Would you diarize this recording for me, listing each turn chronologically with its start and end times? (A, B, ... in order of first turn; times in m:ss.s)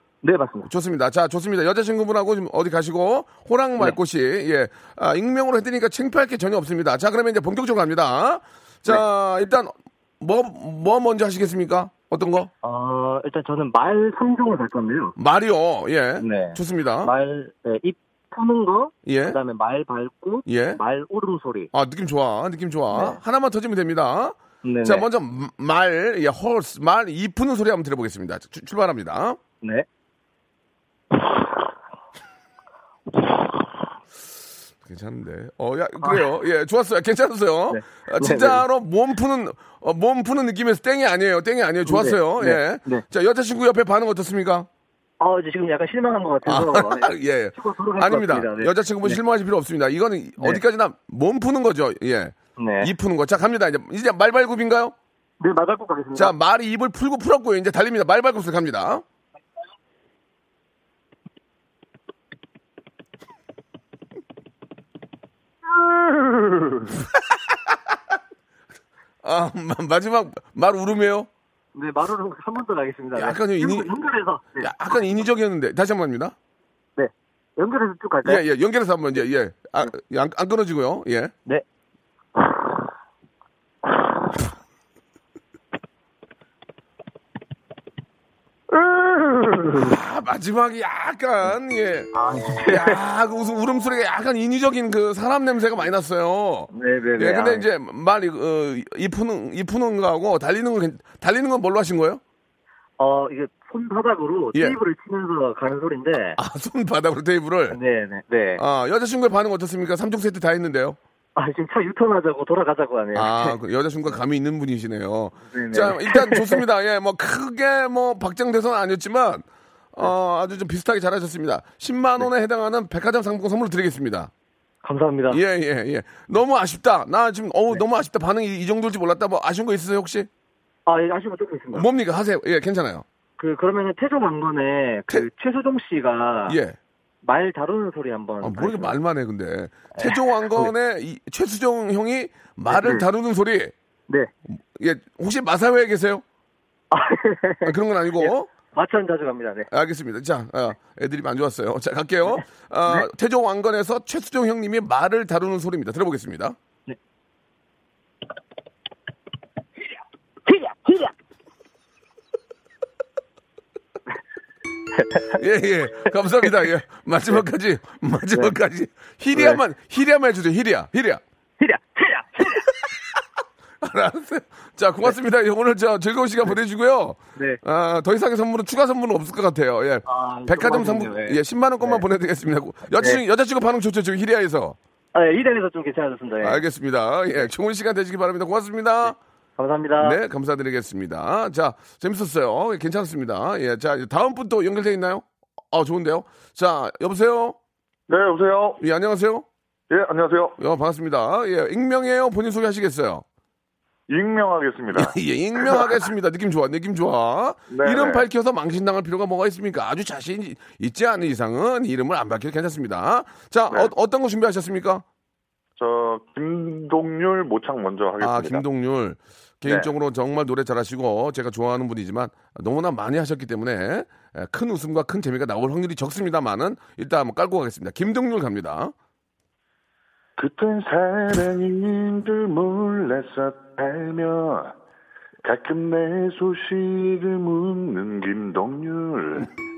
0:00.2-0:00.7 A
0:00.6-0:12.5 B
0:12.6-0:15.1 A
0:15.2-0:17.1 B
0:16.2-0:21.7 A
0:19.0-0:19.4 B
0:20.4-0:20.8 B
0:21.7-0:29.4 B
0:22.9-0:23.2 A
0:24.6-0:25.0 A
0:34.8-0:44.7 B
0:36.0-0:36.3 A
0:37.7-0:38.6 A
0:41.8-0:43.0 A
0:45.2-0:49.2 A
0:46.4-0:54.9 B
0:52.6-0:52.9 A
0:55.4-0:56.3 A
0:56.1-0:59.0 B
1:09.2-1:11.3 B
1:11.7-1:15.0 A
1:13.1-1:13.9 B
1:14.6-1:16.4 B
1:17.0-1:18.4 A
1:18.2-1:21.3 B
1:29.0-1:29.7 A
1:29.7-1:32.1 B
1:32.1-1:33.0 A
1:32.7-1:42.2 B
1:36.7-1:37.7 A
1:43.0-1:46.4 A
1:44.5-1:44.8 B
1:46.4-1:47.8 B
1:47.7-1:48.6 A
1:48.6-1:51.0 B
1:51.4-1:53.6 A
1:53.1-2:04.3 B
1:55.5-1:56.6 A
2:04.8-2:05.4 A
2:05.3-2:10.3 B
2:10.8-2:11.9 A
2:11.7-2:13.0 B
2:13.4-2:16.6 A
2:16.5-2:16.8 B
2:17.2-2:19.0 A
2:18.4-2:23.7 B
2:20.0-2:20.7 A
2:22.7-2:23.0 A
2:24.8-2:26.2 B
2:26.9-2:29.7 A
2:27.6-2:28.5 B
2:29.7-2:36.6 B
2:40.5-2:41.1 A
2:45.3-2:51.2 B
2:49.3-2:49.6 A
2:51.6-2:52.7 A
2:53.8-3:04.8 B
3:00.0-3:02.0 A
3:02.9-3:03.2 A
3:05.1-3:06.6 A
3:06.4-3:09.2 B
3:09.6-3:10.2 A
3:10.0-3:17.6 B
3:18.1-3:18.8 C
3:18.8-3:19.4 B
3:19.9-3:20.6 C
3:20.6-3:23.2 B
3:24.1-3:25.2 C
3:24.9-3:35.0 B
3:27.7-3:28.2 C
3:35.8-3:38.6 C
3:38.2-3:48.9 B
3:39.6-3:39.9 C
3:50.4-3:54.8 C
3:55.4-3:59.5 C